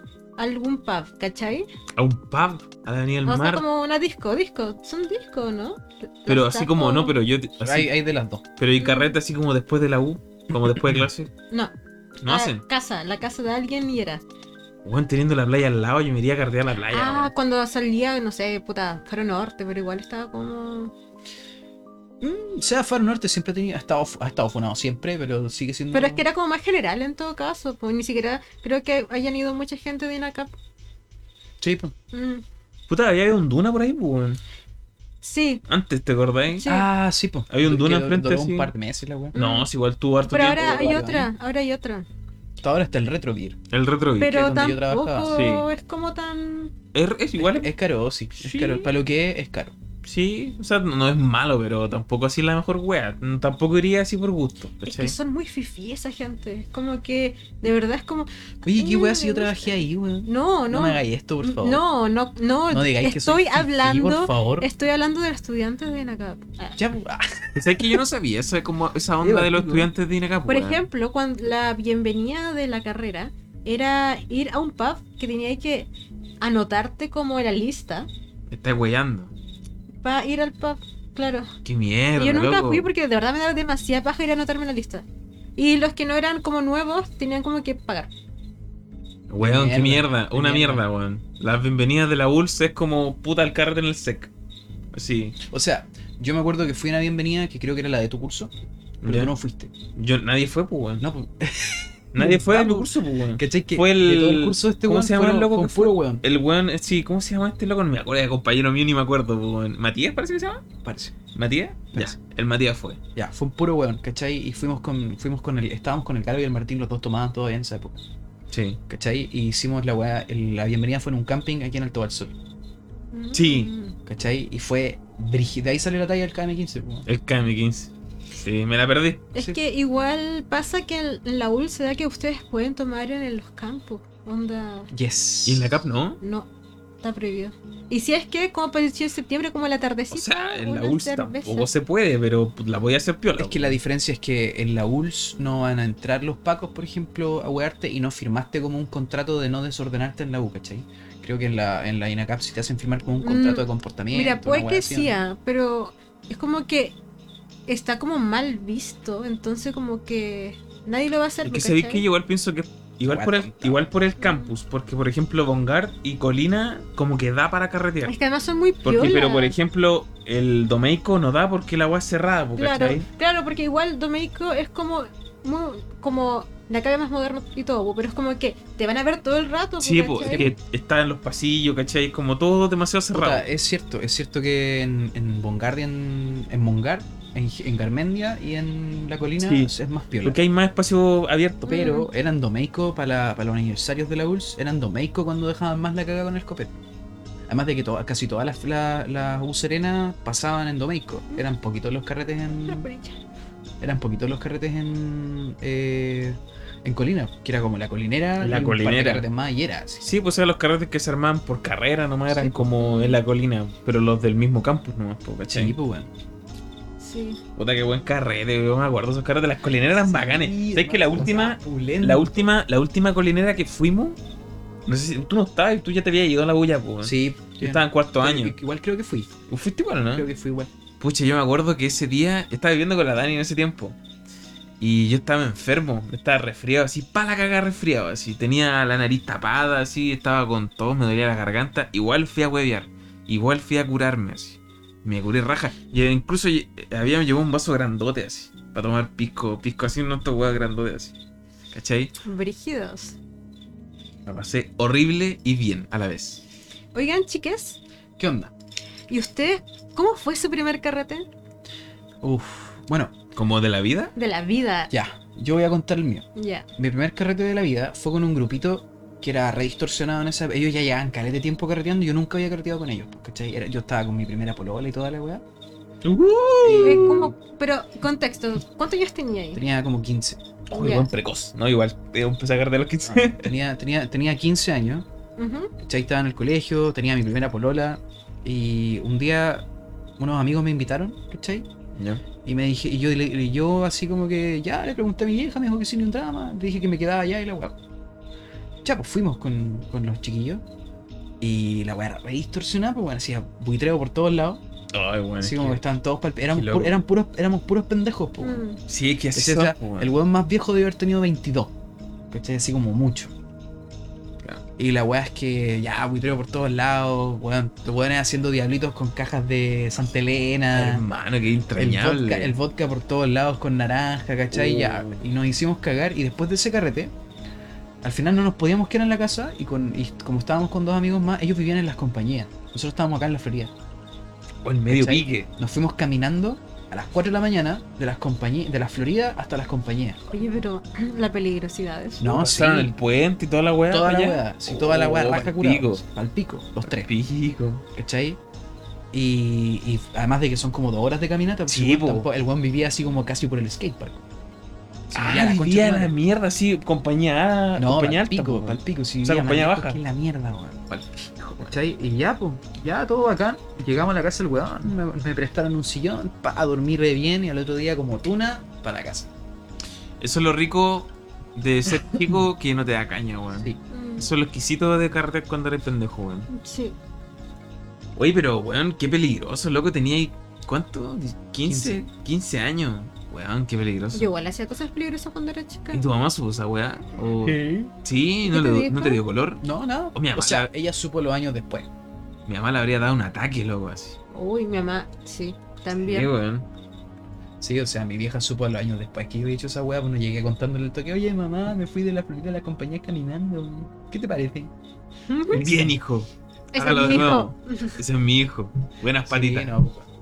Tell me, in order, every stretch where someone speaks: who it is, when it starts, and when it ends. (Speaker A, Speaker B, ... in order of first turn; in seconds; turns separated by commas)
Speaker A: 0.4-1.7, Speaker B: 1.9-3.6, Speaker A: 3.2-7.1, Speaker B: 6.3-7.9, Speaker C: 7.6-8.4, Speaker B: 8.6-11.3, Speaker A: 8.8-9.2, Speaker B: 12.2-12.6, Speaker A: 12.2-14.2, Speaker B: 14.8-17.3, Speaker A: 16.9-20.9, Speaker C: 22.2-26.2, Speaker A: 25.9-30.5, Speaker C: 31.6-31.9, Speaker A: 32.1-32.4, Speaker B: 32.9-34.4, Speaker A: 35.2-35.6, Speaker B: 35.7-36.6, Speaker A: 36.5-36.9, Speaker C: 36.6-39.4, Speaker B: 37.5-38.7, Speaker A: 39.3-39.7, Speaker B: 39.3-41.0, Speaker A: 40.3-42.1, Speaker C: 40.5-41.3, Speaker C: 42.6-43.6, Speaker B: 43.7-44.4, Speaker A: 44.2-46.7, Speaker C: 44.2-45.3, Speaker B: 45.3-45.7, Speaker B: 46.9-47.7, Speaker C: 47.4-49.7, Speaker B: 48.4-48.8, Speaker B: 50.0-55.1, Speaker A: 54.8-66.8, Speaker C: 58.6-61.8, Speaker C: 62.7-64.7, Speaker C: 66.8-68.0, Speaker B: 67.5-70.8, Speaker C: 69.2-69.9, Speaker A: 70.5-75.9, Speaker A: 76.4-78.1, Speaker B: 78.5-79.3, Speaker A: 80.0-81.5, Speaker B: 81.6-82.9, Speaker A: 82.2-85.0, Speaker A: 85.6-88.1, Speaker B: 89.3-94.3, Speaker C: 89.4-90.8, Speaker B: 94.9-95.4, Speaker C: 95.4-98.5, Speaker B: 99.0-99.3, Speaker C: 99.0-99.7, Speaker B: 99.9-101.0, Speaker C: 101.0-106.2, Speaker B: 102.1-110.6, Speaker C: 110.8-111.1, Speaker B: 111.3-113.0, Speaker C: 113.1-118.0, Speaker B: 118.5-118.8, Speaker C: 118.9-122.3, Speaker A: 123.1-124.0, Speaker B: 123.3-123.7, Speaker C: 124.0-127.0, Speaker B: 127.0-129.3, Speaker A: 129.3-134.9, Speaker C: 134.9-135.8, Speaker B: 135.4-136.2, Speaker A: 136.2-136.5, Speaker A: 137.0-141.7, Speaker B: 140.1-143.8, Speaker C: 143.4-155.1, Speaker A: 153.2-157.0, Speaker A: 157.7-162.0, Speaker B: 161.4-168.1, Speaker C: 163.1-163.8, Speaker A: 164.2-164.5, Speaker A: 168.1-169.5, Speaker B: 168.8-173.0, Speaker A: 172.6-180.5, Speaker B: 179.8-183.4, Speaker C: 180.2-180.5, Speaker C: 183.1-190.4, Speaker B: 189.4-191.9, Speaker A: 191.7-192.1, Speaker C: 191.7-196.7, Speaker C: 197.5-202.9, Speaker A: 202.6-203.1, Speaker C: 203.8-210.0, Speaker B: 208.4-209.2, Speaker B: 210.0-215.7, Speaker A: 212.3-213.2, Speaker C: 215.5-216.1, Speaker A: 217.0-217.4, Speaker B: 217.6-224.2, Speaker C: 219.9-222.5, Speaker B: 224.8-228.5, Speaker C: 227.0-229.3, Speaker B: 229.5-230.3, Speaker C: 230.1-230.7, Speaker B: 231.0-234.0, Speaker B: 234.8-251.1, Speaker B: 251.7-252.1, Speaker A: 252.2-253.2, Speaker B: 254.2-256.4, Speaker A: 256.9-257.8, Speaker C: 258.2-258.5, Speaker A: 259.1-261.3, Speaker C: 262.2-263.1, Speaker B: 263.4-264.1, Speaker A: 264.1-264.9, Speaker C: 264.9-266.2, Speaker A: 266.4-266.7, Speaker C: 266.8-275.4, Speaker B: 276.0-277.3, Speaker C: 276.6-277.3, Speaker A: 276.8-279.6, Speaker C: 279.5-280.4, Speaker B: 280.7-283.5, Speaker A: 280.7-281.1, Speaker C: 283.0-285.1, Speaker A: 285.4-285.7, Speaker C: 285.8-289.7, Speaker C: 290.2-291.7, Speaker B: 291.9-292.2, Speaker C: 292.4-297.8, Speaker C: 298.8-300.6, Speaker C: 301.4-304.6, Speaker B: 304.9-305.8, Speaker C: 305.4-308.6, Speaker B: 306.5-307.0, Speaker A: 308.4-308.8, Speaker B: 308.9-310.1, Speaker C: 309.3-311.7, Speaker C: 312.3-313.3, Speaker C: 314.8-321.0, Speaker B: 320.7-322.6, Speaker C: 321.8-327.1, Speaker B: 324.5-325.2, Speaker C: 328.0-333.7, Speaker B: 334.6-335.5, Speaker C: 334.9-340.2, Speaker A: 340.3-342.2, Speaker C: 342.2-342.9, Speaker B: 342.3-346.0, Speaker C: 343.9-347.1, Speaker B: 346.8-347.8, Speaker C: 347.9-348.4, Speaker C: 349.1-354.2, Speaker B: 351.7-352.3, Speaker C: 355.1-356.1, Speaker B: 355.1-360.0, Speaker C: 357.8-360.9, Speaker B: 360.9-361.7, Speaker C: 361.6-369.3, Speaker B: 370.2-376.5, Speaker A: 373.9-374.3, Speaker A: 376.5-377.0, Speaker B: 378.1-384.3, Speaker C: 381.6-382.0, Speaker A: 384.1-386.0, Speaker B: 385.9-389.6, Speaker C: 387.4-387.9, Speaker A: 388.4-389.2, Speaker C: 389.6-391.9, Speaker B: 390.1-390.6, Speaker B: 392.4-394.2, Speaker A: 394.3-396.3, Speaker B: 395.9-396.7, Speaker C: 397.6-404.7, Speaker A: 405.3-405.6, Speaker C: 405.5-405.9, Speaker B: 405.5-409.7, Speaker A: 406.7-408.0, Speaker C: 409.2-410.1